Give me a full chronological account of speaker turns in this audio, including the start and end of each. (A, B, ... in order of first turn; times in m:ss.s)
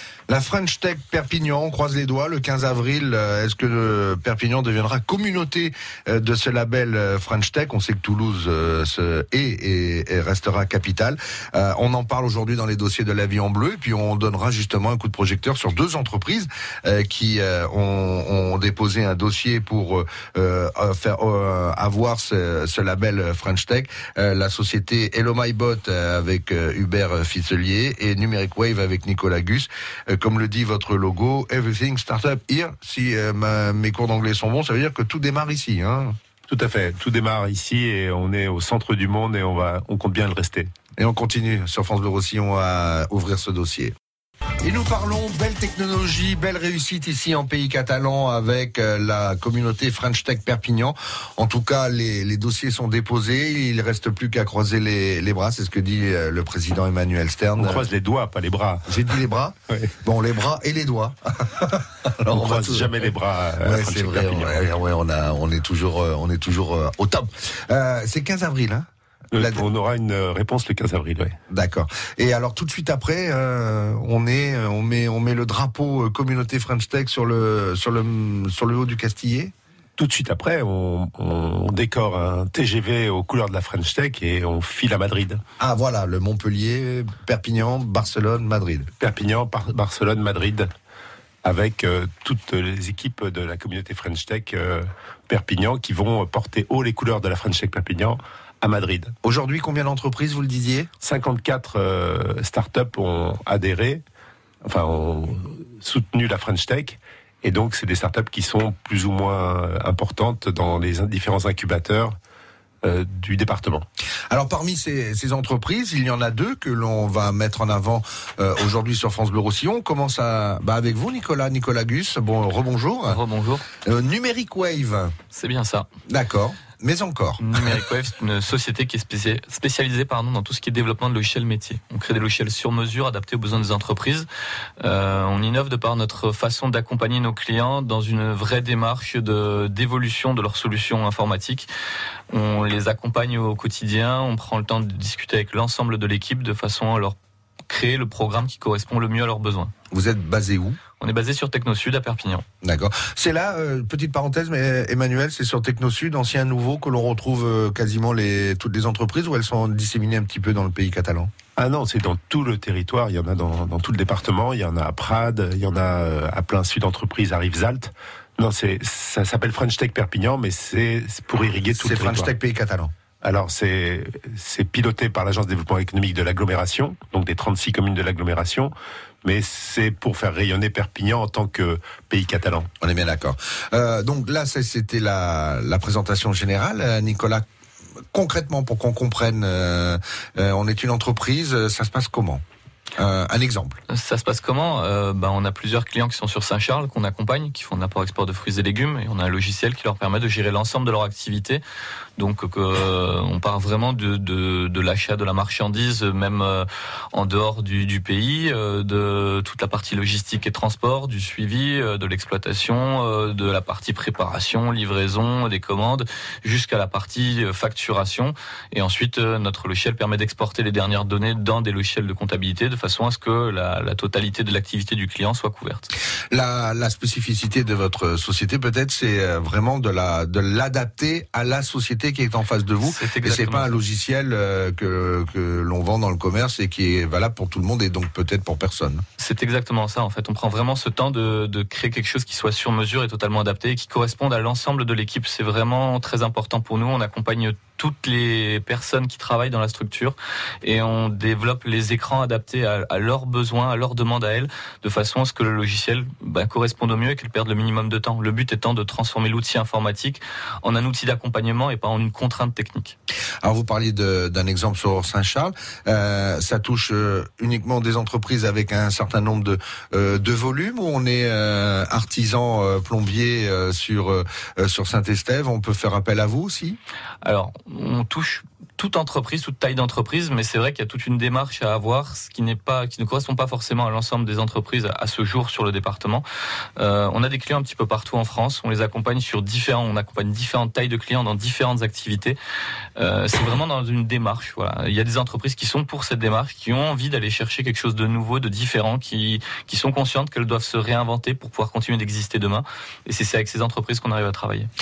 0:00.3-0:36.2 A
0:36.5-0:40.7 B
0:41.0-0:43.9 A
0:44.6-0:57.9 A
0:57.6-0:59.0 B
0:58.9-1:09.6 A
1:02.3-1:04.6 B
1:09.3-1:11.4 B
1:11.5-1:19.5 A
1:20.0-1:25.4 B
1:25.6-1:28.9 A
1:29.0-1:30.7 B
1:31.4-1:39.1 B
1:39.2-1:40.9 A
1:41.0-1:44.0 B
1:44.6-1:52.2 B
1:52.8-1:53.8 B
1:54.3-2:03.2 A
2:03.0-2:03.6 C
2:03.8-2:05.1 A
2:05.3-2:05.9 C
2:06.1-2:07.7 A
2:07.4-2:14.3 C
2:14.8-2:21.7 C
2:22.3-2:27.2 C
2:27.7-2:29.7 C
2:29.9-2:30.8 A
2:31.0-2:32.4 C
2:32.6-2:41.3 A
2:41.6-2:52.3 B
2:51.7-2:52.9 A
2:53.2-2:58.7 B
2:59.2-3:02.7 B
3:02.8-3:07.4 A
3:08.1-3:12.4 A
3:13.0-3:13.8 A
3:13.9-3:21.6 C
3:22.2-3:45.9 C
3:46.3-3:59.0 A
3:52.8-3:53.7 C
3:59.2-4:22.9 C
4:23.4-4:36.8 A
4:37.2-4:46.2 C
4:46.8-4:52.4 C
4:53.0-5:04.7 C